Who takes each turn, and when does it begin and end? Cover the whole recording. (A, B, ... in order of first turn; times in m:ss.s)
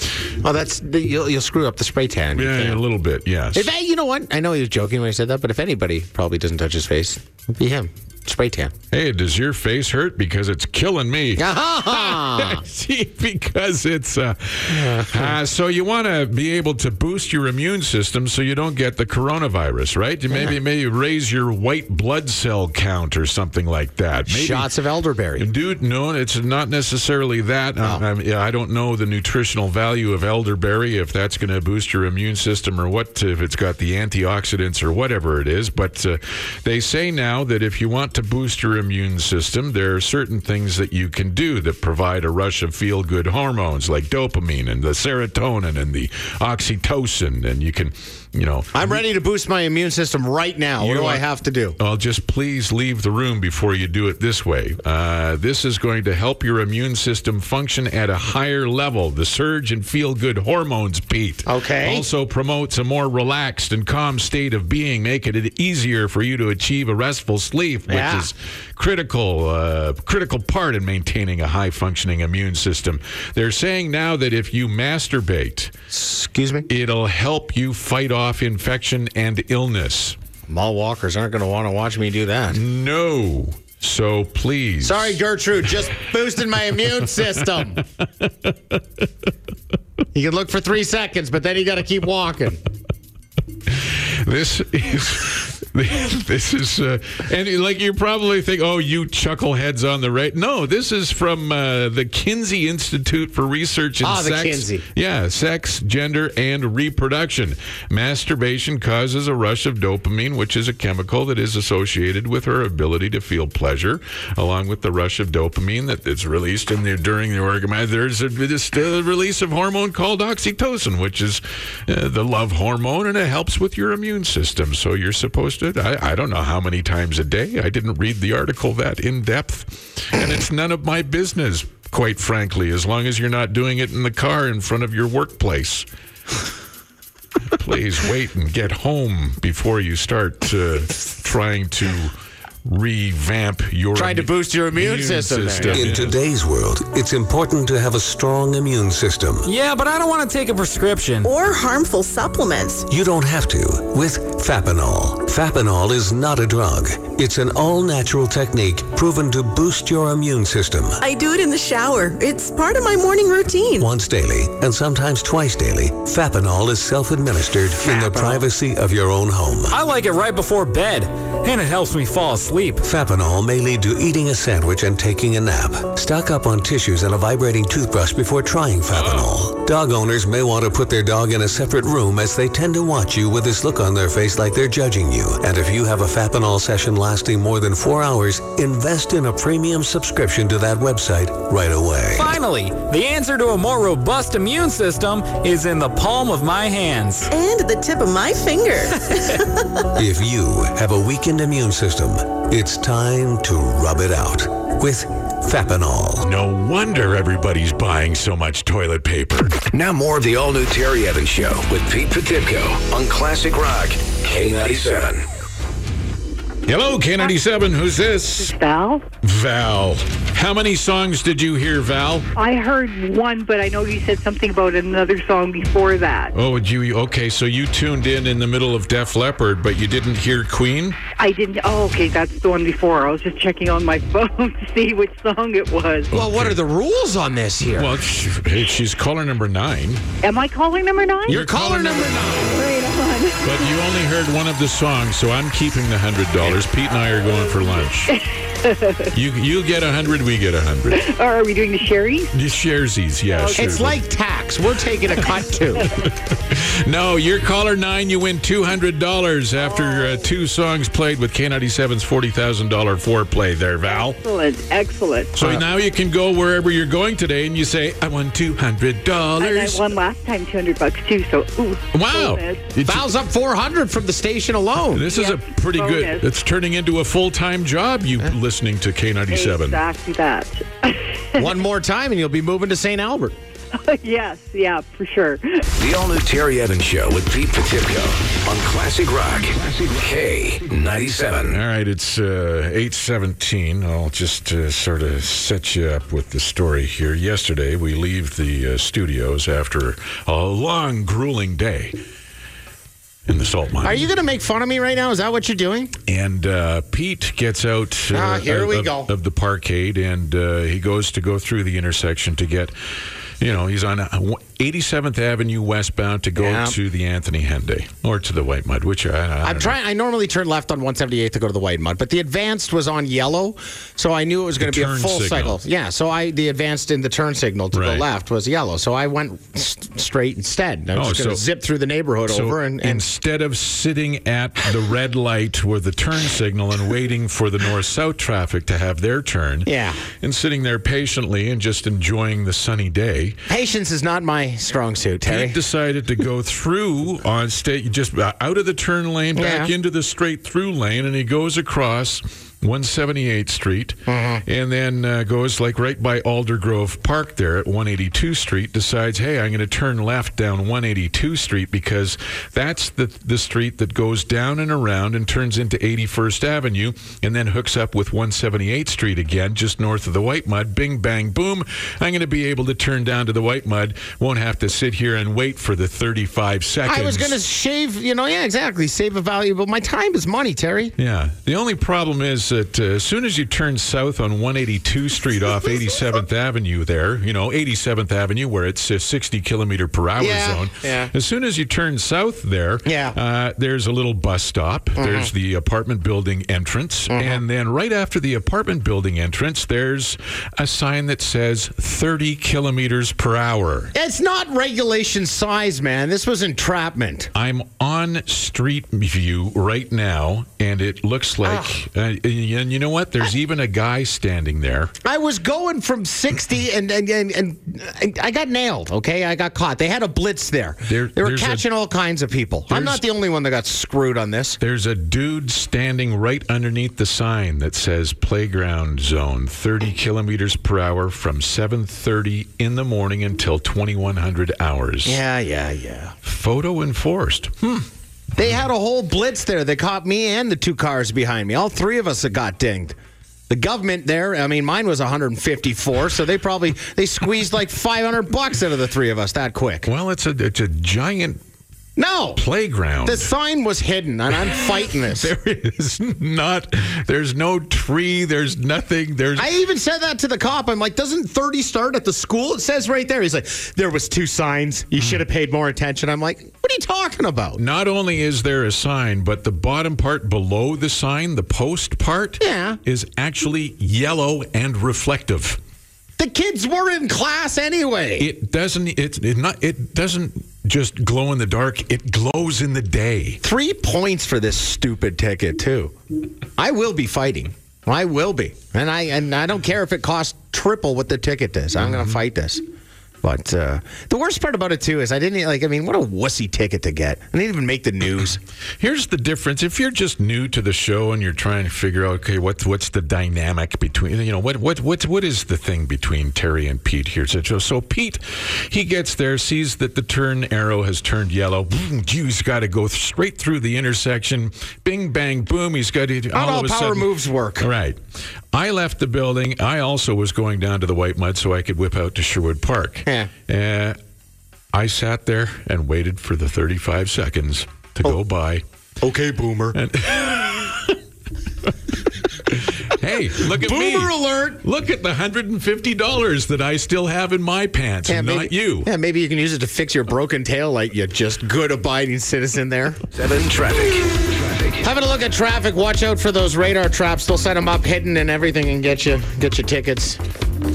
0:00.4-0:02.8 A
0:02.4-0:03.7 B
0:03.5-0:08.7 A
0:08.9-0:24.7 B
0:11.4-0:12.6 A
0:14.7-0:15.4 A
0:24.3-0:25.5 A
0:25.4-0:49.0 B
0:48.7-0:51.8 A
0:50.8-0:51.2 B
0:51.8-1:15.7 B
1:01.4-1:02.1 A
1:07.9-1:08.3 A
1:15.9-1:16.7 A
1:16.7-1:20.2 B
1:20.5-1:22.6 A
1:22.5-1:25.2 B
1:24.8-1:27.8 A
1:28.0-1:28.8 B
1:30.1-1:32.6 A
1:33.7-2:15.9 B
1:44.0-1:44.8 A
2:17.5-2:22.1 B
2:22.6-2:26.2 B
2:23.9-2:25.9 A
2:25.7-2:29.5 C
2:29.4-2:31.3 D
2:31.2-2:32.9 E
2:32.9-2:41.0 C
2:41.0-2:43.9 E
2:43.8-2:49.8 C
2:47.9-2:48.4 A
2:49.7-2:52.8 D
2:52.8-3:12.4 C
2:58.9-2:59.3 B
3:12.1-3:17.3 D
3:17.3-3:19.5 E
3:20.0-3:26.3 C
3:26.2-3:29.6 B
3:29.7-3:35.2 F
3:36.7-3:38.6 B
3:38.4-3:39.0 G
3:39.2-3:42.3 B
3:42.3-3:46.3 G
3:46.3-3:51.0 B
3:51.2-3:56.1 G
3:56.1-3:56.6 B
3:56.1-3:57.9 A
3:57.6-4:00.0 B
4:00.2-4:01.5 G
4:01.3-4:02.6 B
4:01.3-4:02.6 A
4:02.5-4:03.7 G
4:03.4-4:08.2 B
4:08.1-4:09.1 G
4:09.1-4:11.0 B
4:10.9-4:12.3 G
4:12.3-4:14.0 B
4:13.3-4:13.8 G
4:13.6-4:15.9 A
4:16.0-4:24.2 B
4:19.6-4:20.3 G
4:23.9-4:25.5 G
4:25.4-4:29.9 B
4:29.4-4:32.7 G
4:31.9-4:33.1 B
4:32.9-4:35.0 A
4:34.9-4:39.8 B
4:35.0-4:36.3 G
4:39.3-4:41.5 G
4:41.4-4:43.3 A
4:43.8-4:45.6 G
4:45.7-4:51.6 F
4:51.5-5:02.0 B
5:03.3-5:04.1 B
5:03.8-5:05.9 A
5:06.1-5:12.7 B
5:08.1-5:09.1 A
5:13.4-5:19.8 B
5:16.4-5:16.7 A
5:19.4-5:33.0 A
5:24.6-5:25.6 B
5:27.7-5:28.0 B
5:31.0-5:31.4 B
5:32.3-5:43.4 B
5:39.6-5:40.0 A
5:43.5-5:45.6 A
5:45.3-6:17.4 B
5:49.4-5:49.7 A
5:54.1-5:54.4 A
6:16.9-6:20.9 A
6:21.0-6:43.9 B
6:30.2-6:31.1 A
6:32.8-6:33.2 A
6:35.0-6:35.3 A
6:37.1-6:37.4 A
6:43.9-6:47.3 A
6:47.3-6:54.9 B
6:51.4-6:51.7 A
6:55.0-7:04.6 A
7:00.9-7:01.6 B
7:02.7-7:03.0 B
7:04.6-7:15.2 B
7:15.0-7:16.1 A
7:16.2-7:17.8 B
7:18.4-7:23.0 A
7:23.5-7:29.9 A
7:29.9-7:31.4 B
7:32.0-7:32.4 A
7:32.4-7:33.3 B
7:33.0-7:35.3 A
7:34.6-7:39.5 B
7:39.4-7:47.6 A
7:47.6-7:55.6 B
7:52.4-7:52.8 A
7:56.2-7:58.3 A
7:58.2-8:03.4 B
8:03.4-8:05.9 A
8:06.6-8:12.6 A
8:13.2-8:18.4 A
8:18.8-8:38.0 B
8:36.3-8:37.7 A
8:38.5-8:44.0 B
8:44.7-8:48.6 B
8:49.0-8:49.8 A
8:49.7-8:51.0 B
8:52.5-8:58.9 B
8:53.4-8:54.6 A
8:58.1-9:03.0 A
9:03.1-9:04.8 F
9:04.8-9:10.2 A